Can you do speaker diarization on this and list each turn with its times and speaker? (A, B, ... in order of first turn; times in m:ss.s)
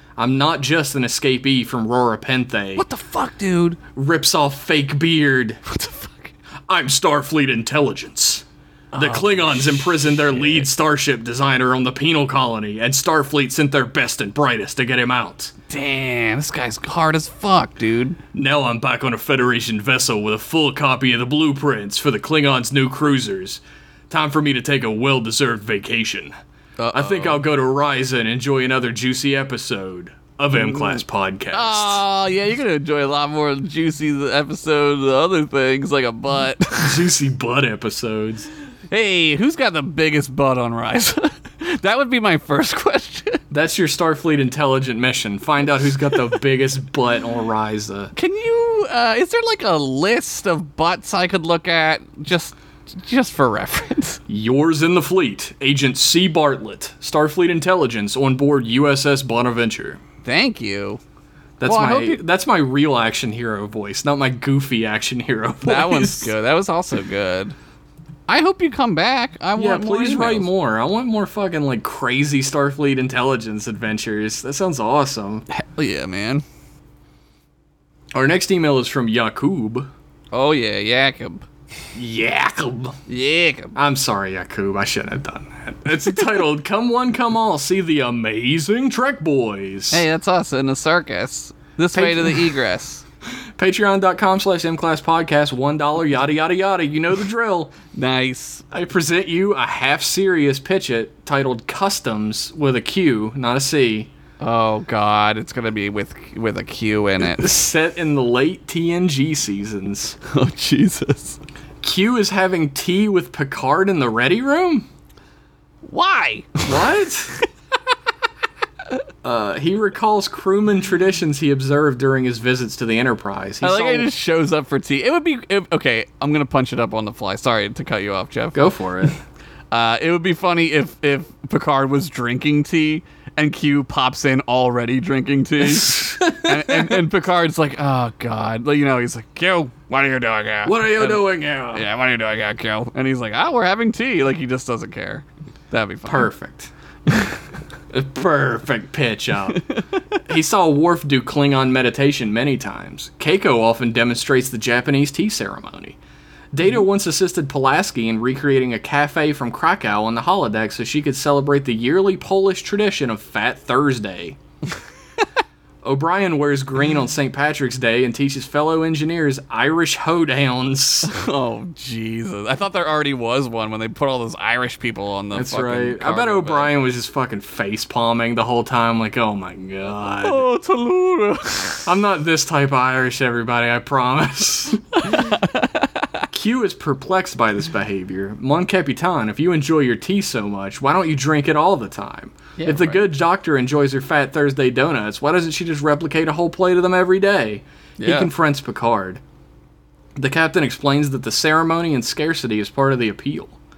0:00.2-0:02.8 A
0:02.8-0:03.8 B
0:03.9-0:05.6 A
0:05.7-0:06.3 B
0:06.7-0:08.4 A
0:08.9-0:10.7 B
0:09.0-0:15.5 A
0:15.7-0:18.2 B
0:18.3-0:26.3 A
0:26.8-0:27.4 B
0:26.9-0:32.0 A
0:30.6-0:31.0 B
0:31.5-0:37.0 B
0:36.8-0:38.5 A
0:38.9-0:43.4 B
0:43.5-0:48.1 A
0:48.1-0:54.2 B
0:54.3-1:00.0 A
1:00.2-1:01.0 B
1:01.6-1:06.3 A
1:01.6-1:02.2 B
1:05.6-1:07.5 B
1:08.3-1:10.5 B
1:09.6-1:15.4 A
1:15.5-1:16.4 B
1:18.1-1:19.9 A
1:20.3-1:21.4 B
1:21.9-1:23.0 A
1:23.1-1:23.8 B
1:23.7-1:30.0 A
1:29.9-1:33.0 B
1:31.9-1:32.5 A
1:33.6-1:37.7 A
1:37.9-1:38.6 B
1:38.7-1:44.1 A
1:44.4-1:47.6 B
1:47.2-1:50.2 A
1:50.2-1:51.4 B
1:51.8-1:54.9 A
1:55.8-1:56.9 B
1:56.6-1:57.3 A
1:59.2-2:04.1 A
2:03.6-2:08.6 B
2:08.5-2:09.2 A
2:09.7-2:26.3 B
2:15.7-2:17.0 A
2:20.6-2:21.8 A
2:26.0-2:27.1 A
2:27.9-2:29.6 A
2:30.2-2:36.0 A
2:36.5-2:44.4 A
2:45.8-2:51.1 A
2:51.0-2:56.7 B
2:55.3-3:00.4 A
3:00.2-3:01.8 B
3:01.8-3:05.4 A
3:05.0-3:06.3 B
3:06.3-3:19.2 A
3:12.6-3:13.1 B
3:18.0-3:18.3 B
3:20.2-3:23.6 A